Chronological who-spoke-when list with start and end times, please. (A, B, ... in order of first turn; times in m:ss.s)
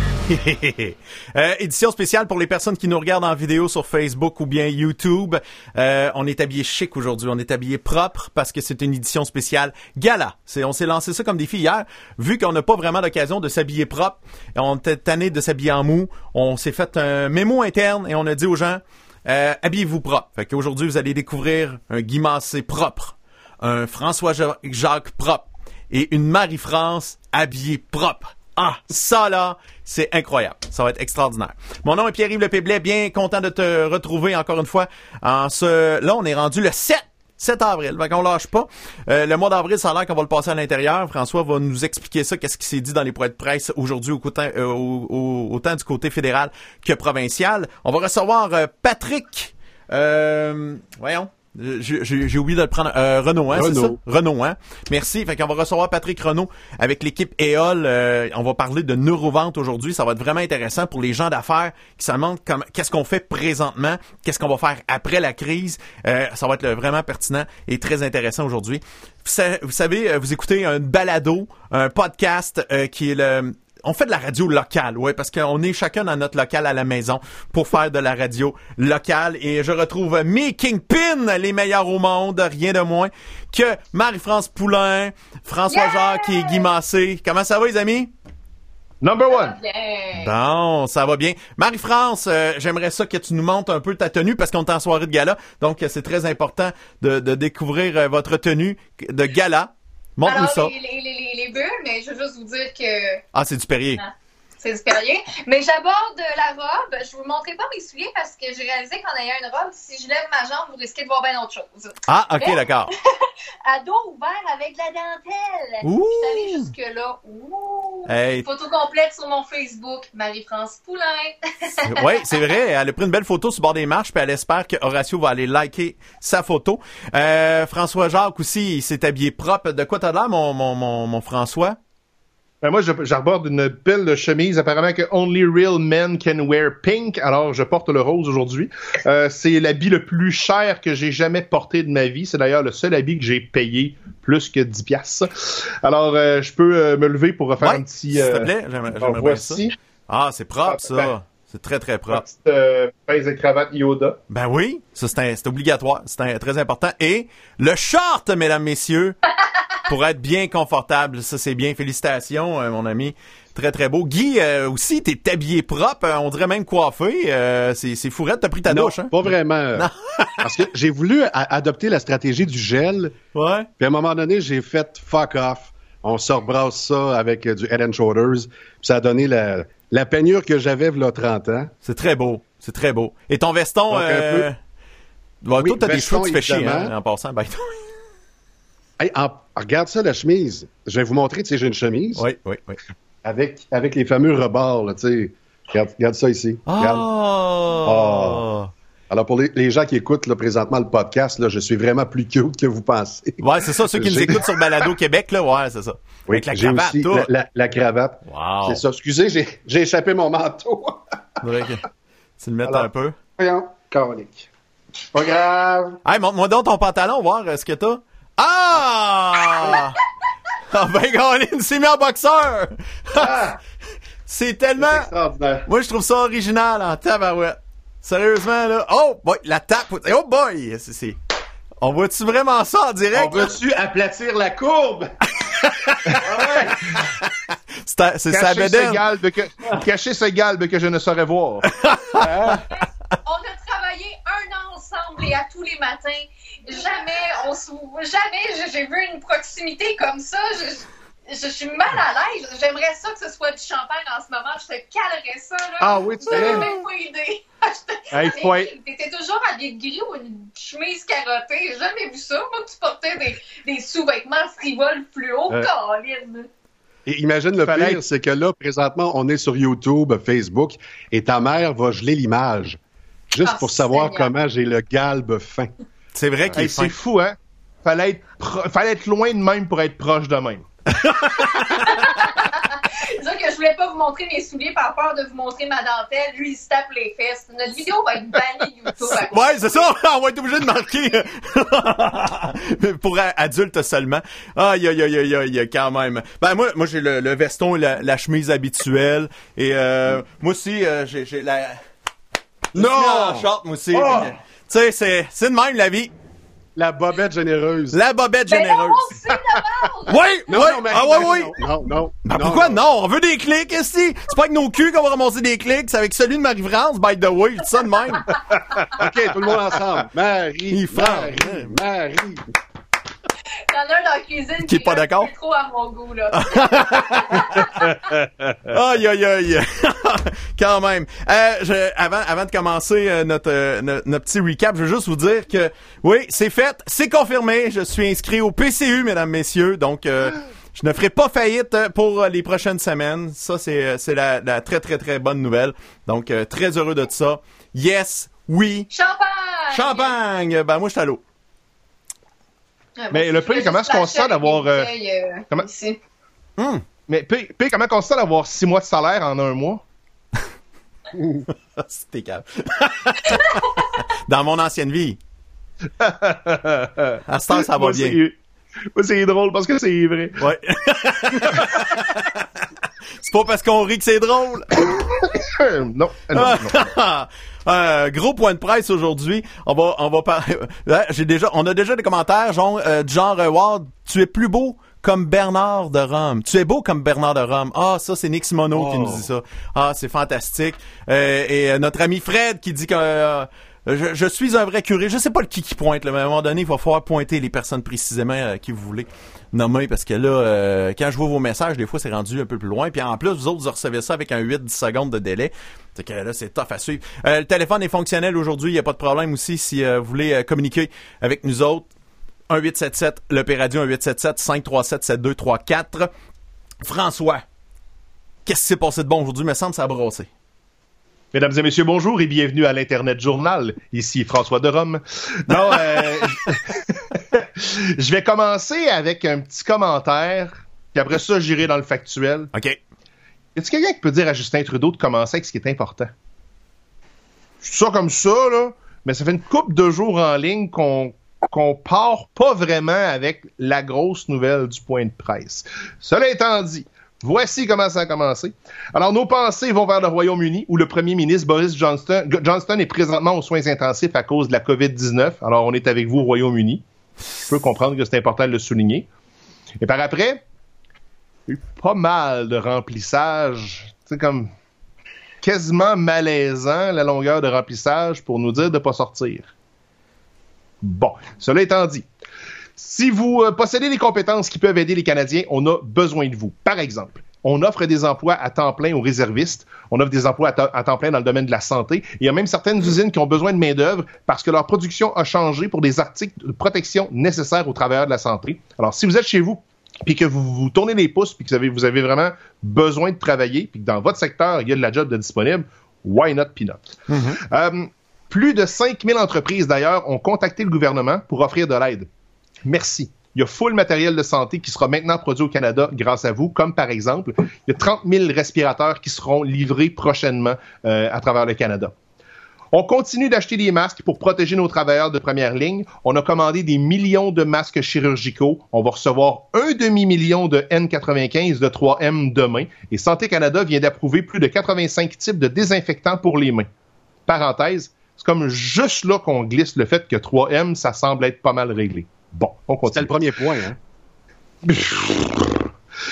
0:00.3-1:28.1 A
0:53.5-0:54.0 B
1:25.7-1:26.6 C
1:29.0-1:29.6 D
1:29.3-1:30.3 C
1:30.2-1:40.7 A
1:40.2-1:43.2 C
1:43.3-1:44.0 A
1:44.0-2:02.5 C
1:52.1-1:52.9 A
1:55.8-1:56.7 A
1:58.1-1:58.5 A
2:01.8-2:11.8 A
2:12.6-2:29.8 D
2:27.6-2:32.2 A
2:30.7-2:31.1 D
2:32.1-2:34.2 D
2:34.3-2:39.2 A
2:39.9-2:49.2 A
2:48.7-2:49.9 B
2:49.8-2:50.4 A
2:50.4-2:53.2 B
2:53.3-2:53.7 A
2:53.8-3:01.7 B
3:01.8-3:04.6 A
3:03.9-3:04.5 B
3:05.4-3:07.9 A
3:05.6-3:06.9 B
3:09.0-3:12.2 B
3:12.2-3:12.8 A
3:13.2-3:17.1 B
3:16.7-3:18.7 A
3:17.8-3:18.5 B
3:19.1-3:24.4 B
3:23.4-3:27.3 A
3:26.3-3:31.0 B
3:28.3-3:28.8 A
3:31.4-3:31.8 A
3:32.4-3:33.2 A
3:33.4-3:34.5 B
3:35.1-3:36.0 B
3:36.0-3:40.0 A
3:40.7-3:43.3 A
3:43.1-3:43.6 B
3:44.3-3:45.1 A
3:44.8-3:45.7 B
3:45.7-3:51.2 A
3:51.8-3:53.6 A
3:53.1-3:55.1 B
3:55.4-3:56.2 A
3:56.2-3:56.8 B
3:57.9-3:59.0 A
3:58.3-4:01.7 D
4:01.8-4:02.3 A
4:02.2-4:02.6 B
4:03.2-4:26.5 C
4:15.8-4:16.7 B
4:18.1-4:18.7 D
4:27.1-4:32.8 B
4:27.6-4:28.0 D
4:33.3-4:35.7 B
4:33.4-4:34.3 C
4:36.1-4:36.9 A
4:36.6-4:40.7 D
4:40.9-4:42.2 A
4:41.7-4:49.8 C
4:49.1-5:01.8 A
5:02.7-5:04.3 B
5:02.8-5:06.1 A
5:06.8-5:08.0 B
5:07.9-5:09.0 A
5:08.5-5:10.4 C
5:10.1-5:11.5 A
5:10.5-5:12.8 B
5:12.3-5:18.3 A
5:19.0-5:22.4 B
5:20.7-5:21.7 A
5:23.7-5:27.9 C
5:24.7-5:25.3 A
5:26.3-5:27.6 A
5:28.7-5:48.9 A
5:48.9-5:50.1 C
5:49.7-5:51.2 A
5:53.0-5:56.0 C
5:53.1-5:54.9 D
5:56.6-5:56.8 A
5:57.1-5:59.8 D
6:01.5-6:05.2 A
6:06.0-6:08.4 D
6:07.3-6:08.2 A
6:08.9-6:10.4 D
6:10.4-6:12.4 A
6:13.2-6:14.8 A
6:15.0-6:16.8 D
6:16.3-6:51.9 A
6:28.7-6:29.3 B
6:52.5-6:56.1 A
6:56.8-6:57.4 A
6:58.5-7:00.3 A
7:01.3-7:12.5 D
7:12.5-7:12.8 A
7:13.6-7:16.1 D
7:17.6-7:36.8 D
7:37.5-7:39.1 D
7:39.8-7:40.4 D
7:41.5-7:44.5 D
7:45.4-7:49.5 D
7:50.8-7:52.1 D
7:52.8-8:16.8 D
8:17.1-8:17.4 A
8:17.4-8:22.1 D
8:22.6-8:31.9 D
8:32.7-8:46.7 D
8:47.3-8:53.1 D
8:52.9-8:53.8 B
8:54.6-8:55.6 D